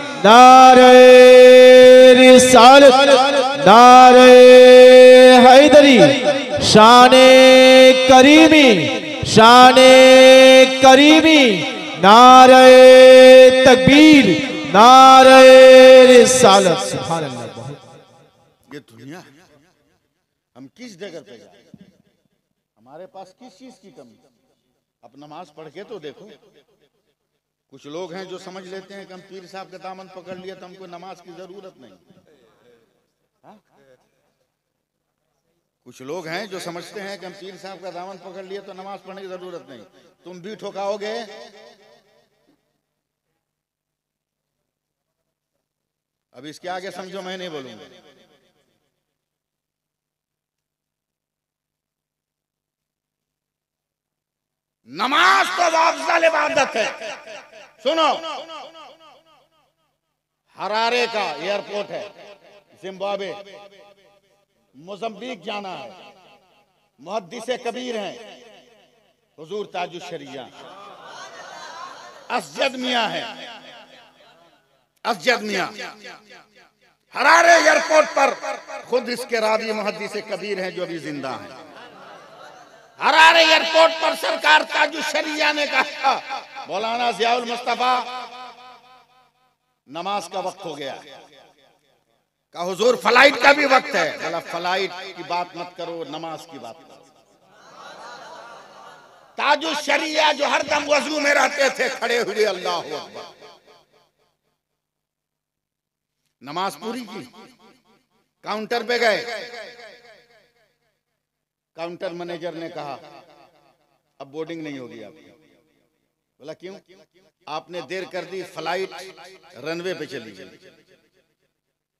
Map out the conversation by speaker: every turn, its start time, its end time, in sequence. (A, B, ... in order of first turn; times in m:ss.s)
0:00.2-0:17.8 A
0:18.7-0:19.3 B
0:20.5-0:21.6 B
0:22.8-0:24.2 B
0:25.0-0:26.3 B
0:27.7-0:32.0 B
0:35.8-0:41.4 B
0:46.3-0:47.9 B
0:55.0-0:57.0 C
0:57.8-0:58.2 B
1:00.6-1:02.1 B
1:02.7-1:03.4 B
1:04.8-1:06.0 B
1:07.0-1:08.2 B
1:09.4-1:10.5 B
1:12.3-1:13.3 B
1:12.4-1:12.6 C
1:15.0-1:15.7 B
1:17.1-1:19.3 C
1:18.9-1:21.5 B
1:23.0-1:26.2 C
1:26.6-1:28.0 B
1:29.9-1:31.0 B
1:32.5-1:37.0 B
1:33.1-1:34.2 C
1:39.4-1:43.0 C
1:42.2-1:43.2 B
1:46.4-1:47.3 B
1:48.4-1:49.5 B
1:51.8-1:53.0 B
1:54.2-1:55.3 B
1:56.4-1:56.8 B
1:57.5-2:00.6 B